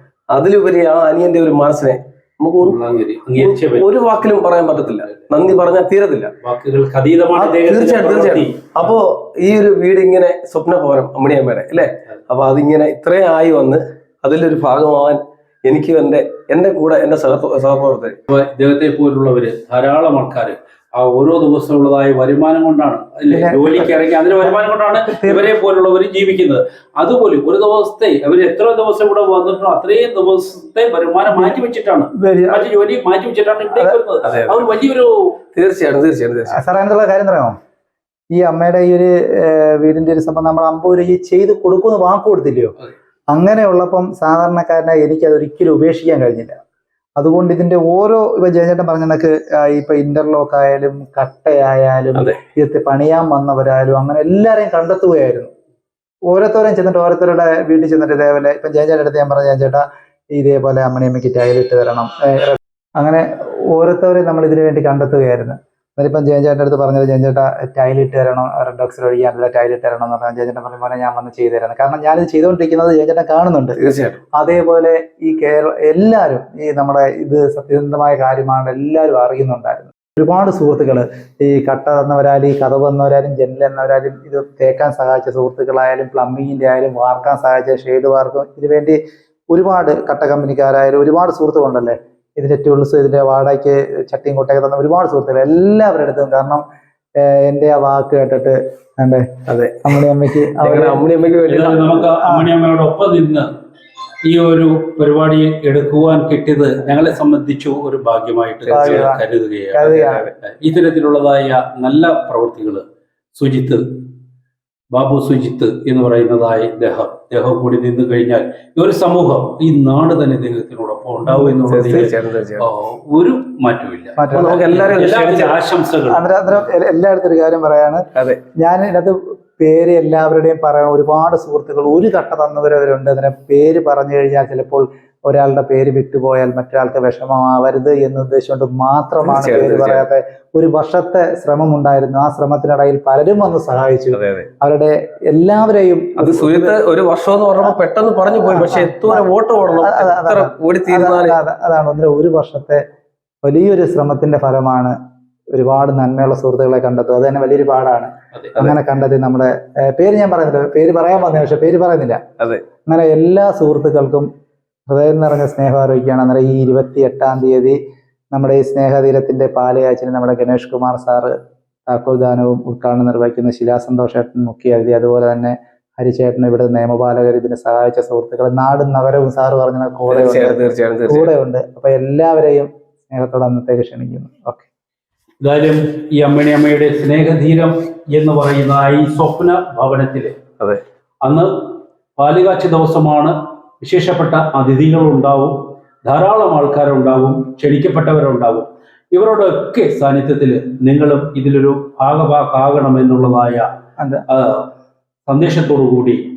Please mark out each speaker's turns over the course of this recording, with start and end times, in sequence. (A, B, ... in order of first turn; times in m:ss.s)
0:00.3-0:02.8 A
0:02.6-0:03.9 B
0:03.4-0:06.3 A
0:06.4-0:08.9 B
0:07.4-0:18.2 A
0:18.3-0:35.3 B
0:23.3-0:25.5 C
0:31.3-0:31.6 C
0:32.2-0:32.7 C
0:34.2-0:34.7 A
0:35.6-0:36.7 A
0:36.5-0:37.6 C
0:38.3-0:42.8 C
0:43.3-0:46.6 C
0:47.2-0:55.5 C
0:56.3-1:13.8 C
1:13.8-1:14.2 A
1:14.4-1:29.0 C
1:29.5-1:36.6 C
1:37.2-1:41.0 C
1:39.5-1:40.0 A
1:40.6-1:42.1 A
1:41.5-1:43.5 B
1:42.2-1:42.5 C
1:44.2-1:52.8 B
1:48.7-1:49.1 A
1:48.7-1:49.2 C
1:49.7-1:50.2 C
1:49.9-1:50.3 A
1:53.4-1:53.8 B
1:54.9-2:06.2 B
2:01.3-2:01.5 C
2:01.7-2:02.7 A
2:04.2-2:04.8 C
2:04.3-2:05.6 A
2:06.1-2:08.0 C
2:08.6-2:26.8 C
2:19.2-2:20.0 A
2:24.1-2:24.5 A
2:26.2-2:31.4 A
2:28.5-2:29.3 C
2:29.8-2:32.8 C
2:33.4-2:35.0 C
2:35.5-2:42.2 C
2:42.9-2:44.3 C
2:44.9-2:47.8 C
2:48.3-2:51.3 C
2:51.9-3:04.7 C
3:00.1-3:01.3 A
3:05.4-3:10.4 B
3:11.2-3:11.5 B
3:12.2-3:23.7 B
3:24.0-3:24.2 C
3:24.3-3:24.7 B
3:25.3-3:26.2 B